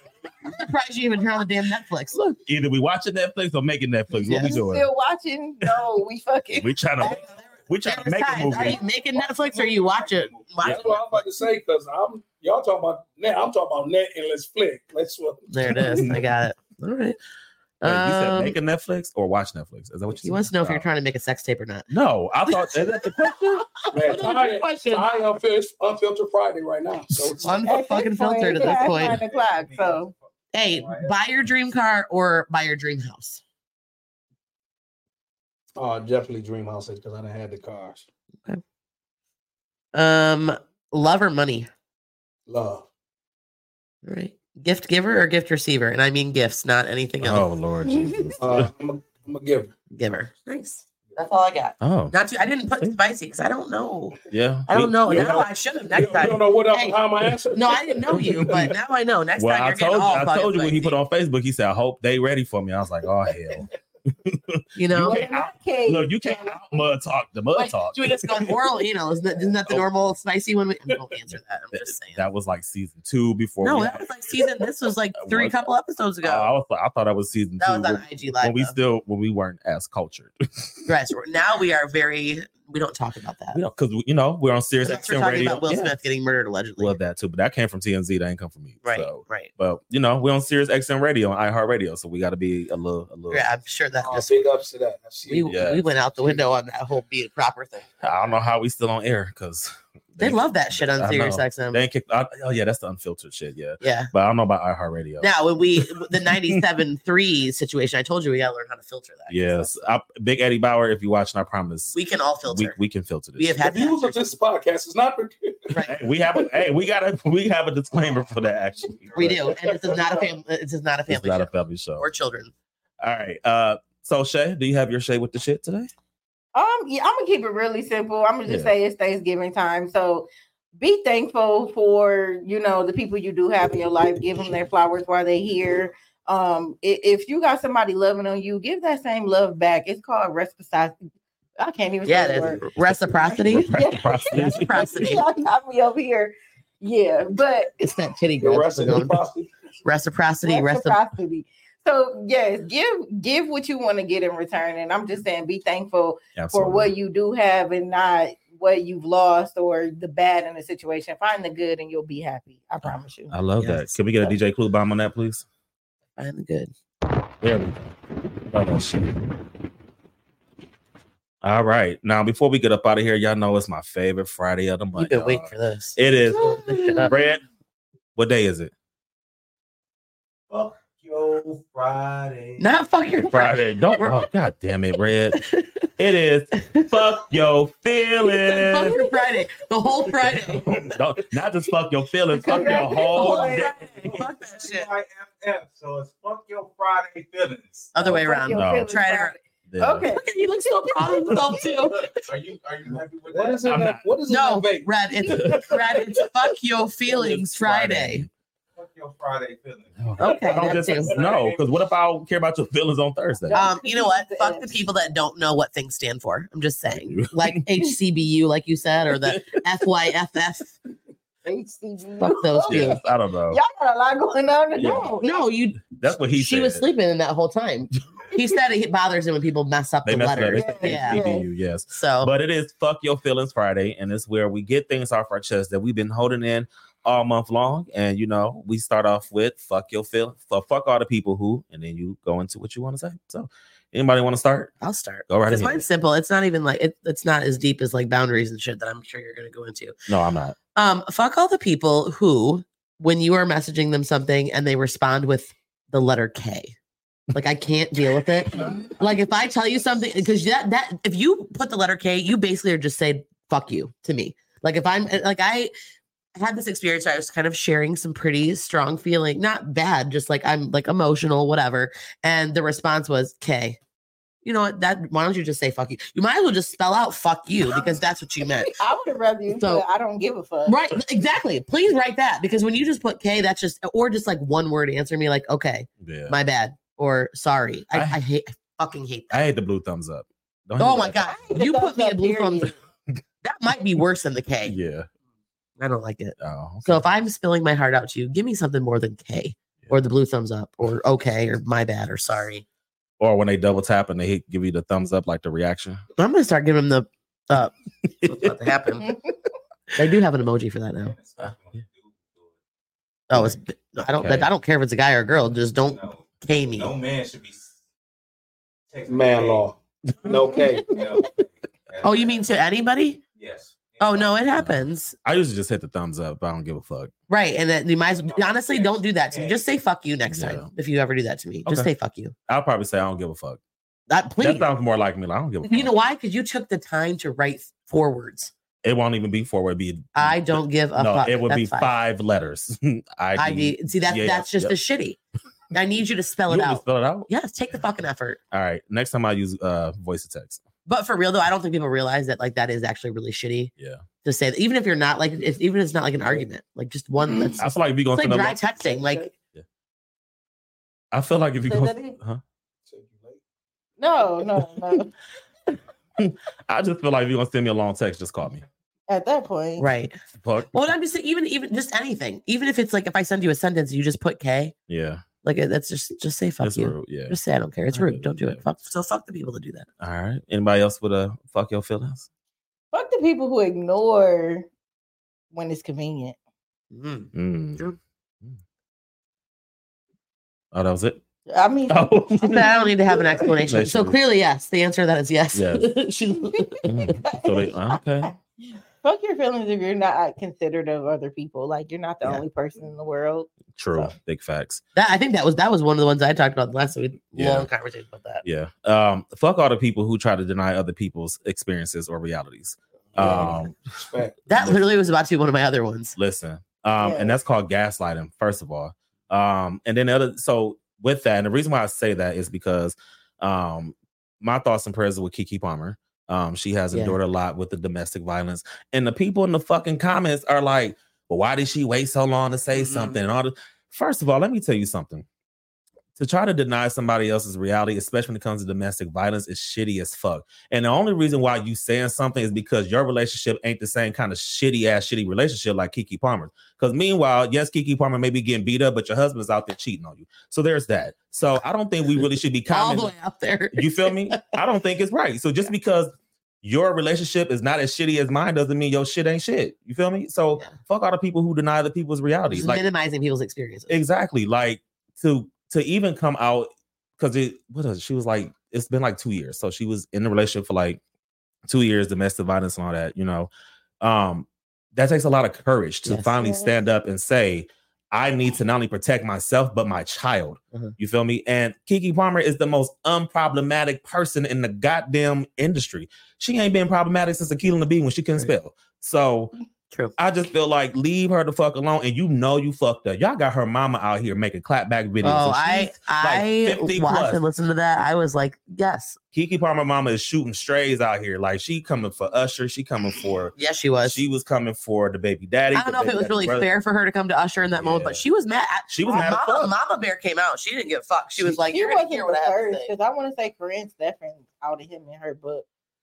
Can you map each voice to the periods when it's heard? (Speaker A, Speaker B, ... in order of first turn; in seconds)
Speaker A: 0.5-2.4, 4.3-4.6, 7.0-11.2, 15.5-17.2, 17.8-18.6, 20.1-21.9, 22.5-25.1, 27.4-29.2, 30.5-33.4, 39.9-41.7, 44.0-47.5, 49.9-57.0, 57.5-61.0, 64.8-65.2, 67.5-72.3, 73.6-76.5, 77.6-78.7, 80.9-83.6, 84.8-87.0, 88.8-89.5, 93.3-94.5, 95.3-97.9, 100.2-101.8, 103.8-104.1, 105.2-109.8, 111.9-112.8, 113.4-114.2, 115.7-116.0, 119.2-122.5, 142.1-143.7, 144.3-145.2, 147.8-149.2, 149.8-151.0, 163.6-164.3, 166.2-166.7, 174.9-177.1, 182.6-184.2, 185.3-185.9, 186.5-187.0, 188.3-190.9, 192.5-194.9, 197.9-199.4, 200.1-202.3, 204.3-208.3, 210.2-211.2, 213.5-220.7, 222.2-223.0, 224.8-231.3, 231.9-232.3, 244.8-249.9, 250.7-256.7, 257.3-265.7, 266.4-273.8, 274.4-278.7, 279.6-279.8, 280.7-289.4, 290.8-292.7, 293.4-294.8, 295.8-302.6, 306.2-307.7, 308.2-309.2, 309.9-311.2, 313.3-316.9, 322.0-323.2, 324.0-325.1, 327.3-332.3, 334.1-334.7, 335.6-338.5, 340.1-341.9, 343.4-345.2, 345.7-348.4, 350.9-353.7, 354.2-359.3, 369.8-370.2, 370.7-374.7, 375.4-379.9, 386.9-388.0, 392.4-397.1, 404.9-408.4, 413.2-413.6, 414.5-416.2, 426.9-427.2, 432.7-433.2, 452.7-454.5, 462.5-463.9, 476.1-476.7, 495.2-499.2, 503.6-504.2, 505.7-512.9
Speaker B: 2.4-4.9, 6.6-8.8, 15.9-16.3, 17.8-20.9, 21.9-23.7, 47.2-48.7, 51.8-52.1, 54.3-55.4, 58.1-58.7, 59.4-68.6, 71.7-74.1, 75.2-75.6, 76.2-80.9, 83.5-85.9, 86.8-93.5, 95.5-95.8, 98.0-106.6, 109.3-112.0, 112.5-113.5, 115.8-119.5, 121.1-122.1, 123.0-125.9, 142.8-145.1, 156.4-156.9, 162.8-165.4, 167.4-167.9, 168.4-169.3, 171.4-177.4, 178.2-178.7, 183.2-185.4, 186.0-189.0, 190.1-193.9, 198.5-198.9, 199.7-200.1, 203.7-204.0, 205.3-206.0, 207.1-208.3, 210.0-213.6, 216.9-217.7, 219.2-219.6, 222.7-223.6, 224.8-225.1, 225.8-226.9, 230.1-244.7, 245.3-245.8, 250.1-250.6, 286.0-286.4, 287.9-288.2, 289.3-291.4, 294.6-295.1, 296.4-297.0, 303.2-306.0, 308.2-308.5, 313.3-314.5, 324.6-327.1, 330.3-330.7, 332.5-333.6, 334.4-335.9, 338.8-344.8, 346.5-347.8, 348.5-350.6, 353.8-354.1, 357.6-358.6, 361.1-362.4, 366.2-368.7, 370.4-370.7, 374.9-375.3, 376.6-377.4, 377.9-378.6, 380.0-382.3, 387.4-387.9, 390.7-391.2, 391.9-392.8, 393.4-394.2, 395.5-395.9, 396.9-398.3, 403.8-404.8, 407.4-407.7, 408.4-413.8, 414.5-414.8, 416.2-435.3, 436.2-453.1, 453.7-462.8, 463.9-471.0, 471.7-473.5, 474.0-489.5, 490.2-497.4, 499.3-506.7, 507.7-508.2, 508.9-509.7
Speaker C: 4.4-6.7, 27.6-30.1, 65.0-66.6, 126.5-130.3, 130.8-141.0, 141.6-142.6, 143.3-147.7, 150.4-163.3, 192.4-193.7, 198.0-201.3, 213.5-214.7, 221.4-223.0, 223.5-225.4, 230.5-231.4, 278.6-280.8, 291.2-292.7, 361.7-362.2, 364.0-365.1, 369.1-369.9, 382.9-384.7, 385.5-386.4, 391.5-392.1, 397.2-397.7, 398.6-404.1, 417.0-417.4, 511.4-515.6
Speaker D: 8.8-10.7, 28.4-31.2, 117.9-119.4, 180.5-182.7, 192.5-198.0, 202.3-203.7, 208.8-211.6, 311.0-312.5, 315.7-317.7, 318.9-319.7, 320.8-322.5, 323.4-324.4, 328.1-329.7
Speaker E: 10.6-16.1, 23.9-27.6, 35.8-38.1, 42.5-42.9, 48.4-49.7, 55.0-58.7, 94.0-95.6, 113.5-116.5, 119.5-120.3, 148.4-149.5, 203.3-206.2, 319.1-320.9, 362.9-363.4, 413.1-414.4